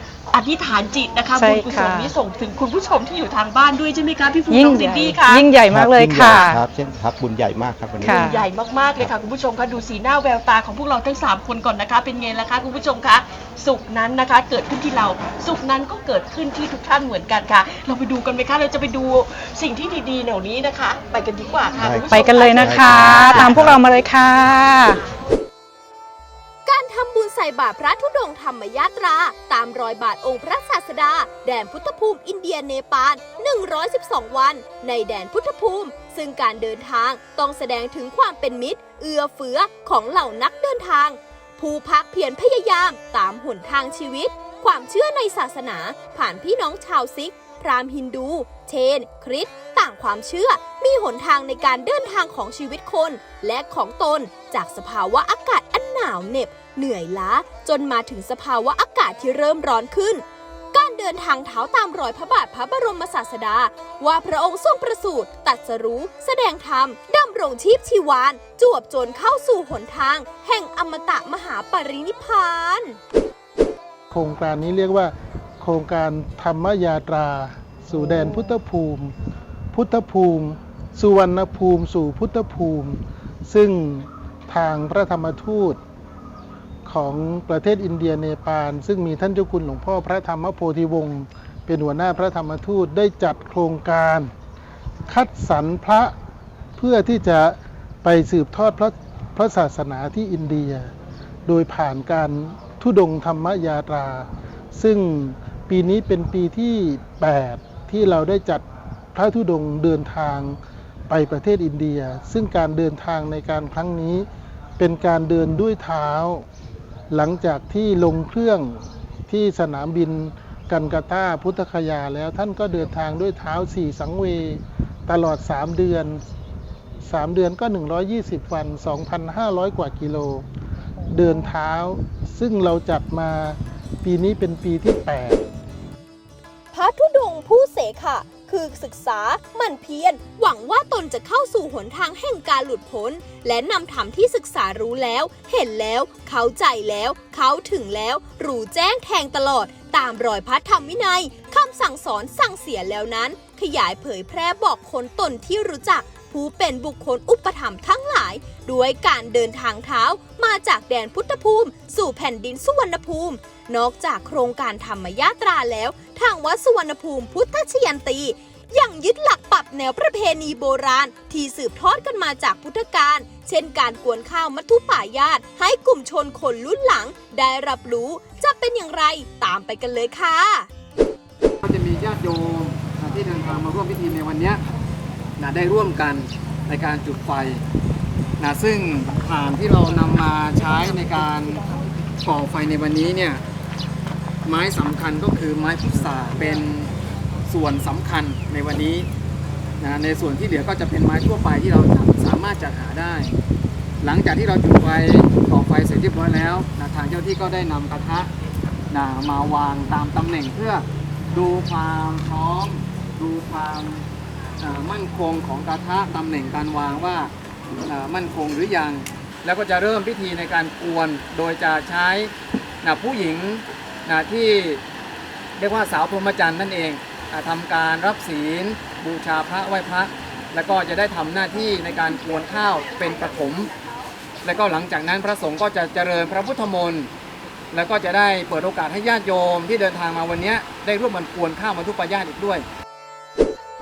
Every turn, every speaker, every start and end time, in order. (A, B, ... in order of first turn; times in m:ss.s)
0:00.3-0:05.5 A
0:01.3-0:02.1 B
0:04.5-0:06.6 B
0:05.7-0:08.4 C
0:08.0-0:08.4 B
0:08.0-0:23.6 A
0:21.8-0:23.8 C
0:22.1-0:25.0 B
0:26.6-1:13.0 D
1:14.1-1:19.1 E
1:18.0-1:18.4 B
1:19.7-1:25.8 E
1:26.8-1:34.3 E
1:35.1-1:36.1 E
1:36.8-1:40.9 E
1:41.4-1:54.3 E
1:54.8-1:56.4 E
1:57.1-2:06.2 E
2:07.0-2:10.4 E
2:11.1-2:15.5 E
2:16.7-3:00.7 D
3:01.6-3:04.6 F
3:05.4-3:07.6 F
3:08.4-3:11.6 F
3:12.2-3:13.4 F
3:14.4-3:16.9 F
3:17.5-3:19.1 F
3:19.8-3:23.3 F
3:24.0-3:28.3 F
3:28.9-3:34.0 F
3:34.6-3:37.3 F
3:37.8-3:42.3 F
3:42.8-3:44.8 F
3:45.6-3:53.7 F
3:54.4-3:57.1 F
3:57.7-4:02.6 F